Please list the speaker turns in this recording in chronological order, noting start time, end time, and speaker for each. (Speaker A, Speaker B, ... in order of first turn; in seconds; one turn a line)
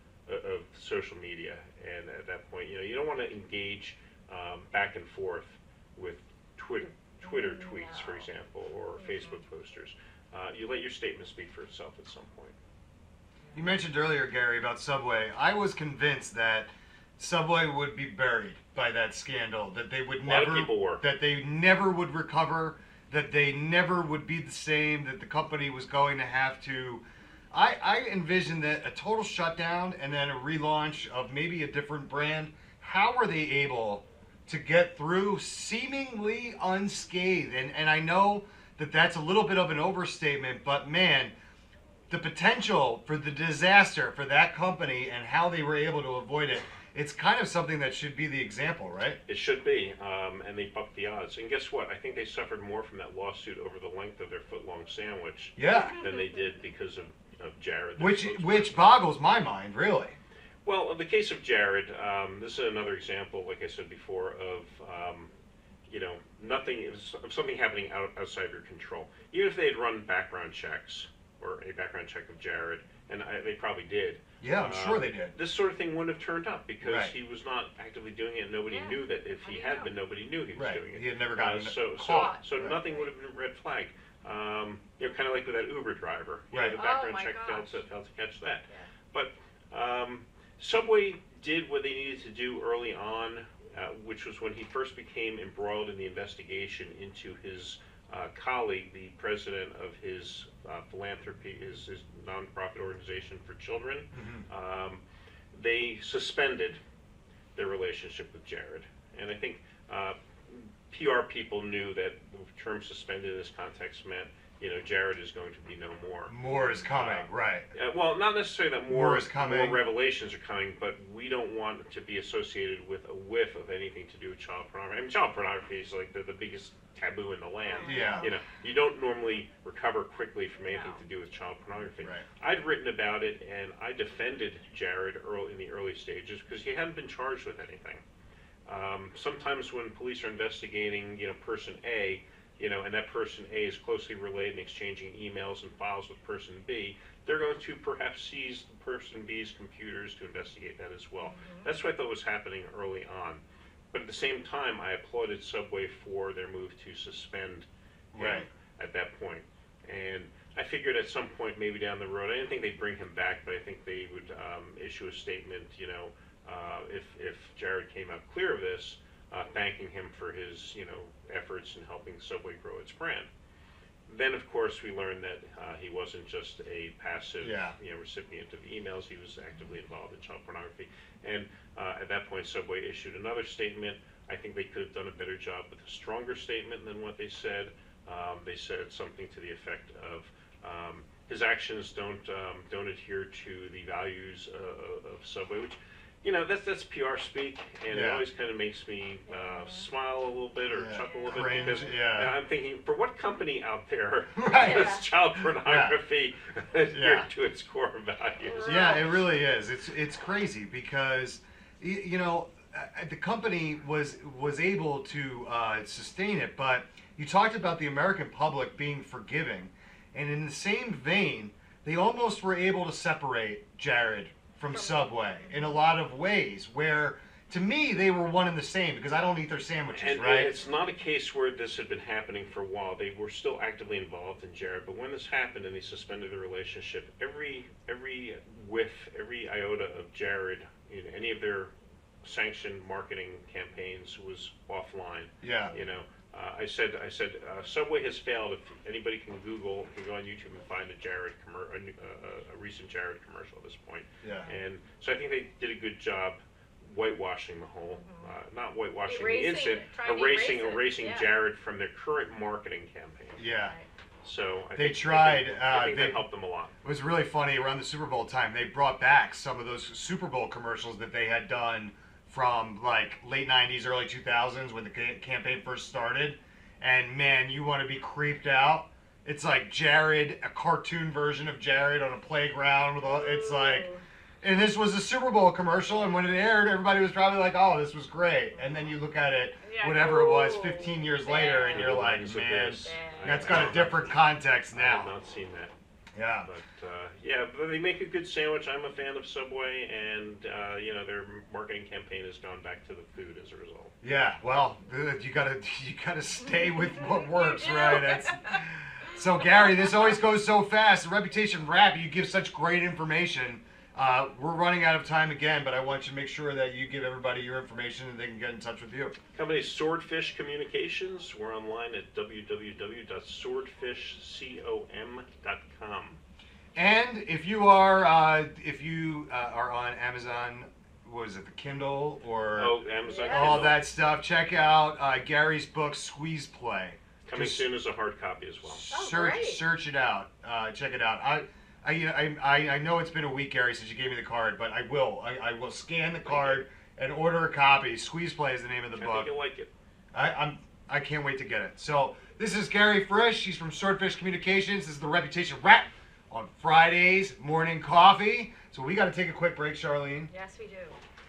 Speaker A: 0.3-12.6
Speaker B: 7.2-8.3
Speaker B: 9.0-9.4
Speaker C: 13.5-41.3
Speaker A: 20.2-21.0
Speaker C: 42.1-49.2
Speaker A: 49.3-58.8
Speaker C: 55.6-56.0
Speaker B: 55.9-56.2
Speaker C: 58.0-60.2
Speaker A: 60.6-65.3
Speaker A: 65.9-105.0
Speaker C: 74.4-75.3
Speaker C: 76.8-77.1
Speaker B: 78.7-79.9
Speaker C: 80.5-82.8
Speaker B: 82.0-83.1
Speaker C: 86.5-86.8
Speaker B: 86.7-87.8
Speaker C: 104.1-104.4
Speaker A: 105.5-106.8
Speaker A: 107.5-138.0
Speaker C: 116.3-117.7
Speaker C: 118.9-119.8
Speaker B: 127.6-128.3
Speaker C: 127.8-128.3
Speaker B: 130.7-131.0
Speaker C: 132.0-132.2
Speaker A: 138.7-173.3
Speaker B: 151.2-151.7
Speaker C: 158.1-158.5
Speaker A: 174.1-208.8
Speaker C: 177.4-177.7
Speaker C: 197.9-198.2
Speaker B: 199.3-199.9
Speaker C: 200.7-202.3
Speaker B: 201.0-201.9
Speaker C: 204.3-205.9
Speaker B: 204.6-205.0
Speaker C: 206.9-207.3
Speaker B: 208.5-209.2
Speaker C: 208.6-230.5
Speaker B: 224.7-225.8
Speaker A: 229.9-241.7
Speaker B: 230.6-230.9
Speaker A: 242.2-263.5
Speaker C: 245.4-245.7
Speaker C: 254.2-254.5
Speaker B: 254.3-254.6
Speaker B: 257.9-258.3
Speaker B: 259.1-261.3
Speaker C: 263.4-263.7
Speaker A: 264.2-266.7
Speaker C: 264.8-266.3
Speaker C: 266.8-283.9
Speaker B: 283.0-284.0
Speaker C: 284.4-295.1
Speaker B: 288.5-288.9
Speaker B: 289.6-293.8
Speaker A: 291.6-295.7
Speaker C: 296.1-296.5
Speaker A: 296.4-303.9
Speaker C: 304.0-319.1
Speaker B: 306.6-308.6
Speaker A: 319.3-326.2
Speaker C: 326.8-337.6
Speaker A: 332.6-333.8
Speaker B: 333.0-333.7
Speaker A: 337.2-338.8
Speaker C: 338.6-349.3
Speaker B: 338.9-339.6
Speaker A: 346.2-346.6
Speaker A: 348.9-349.7
Speaker C: 350.1-360.3
Speaker B: 360.3-361.0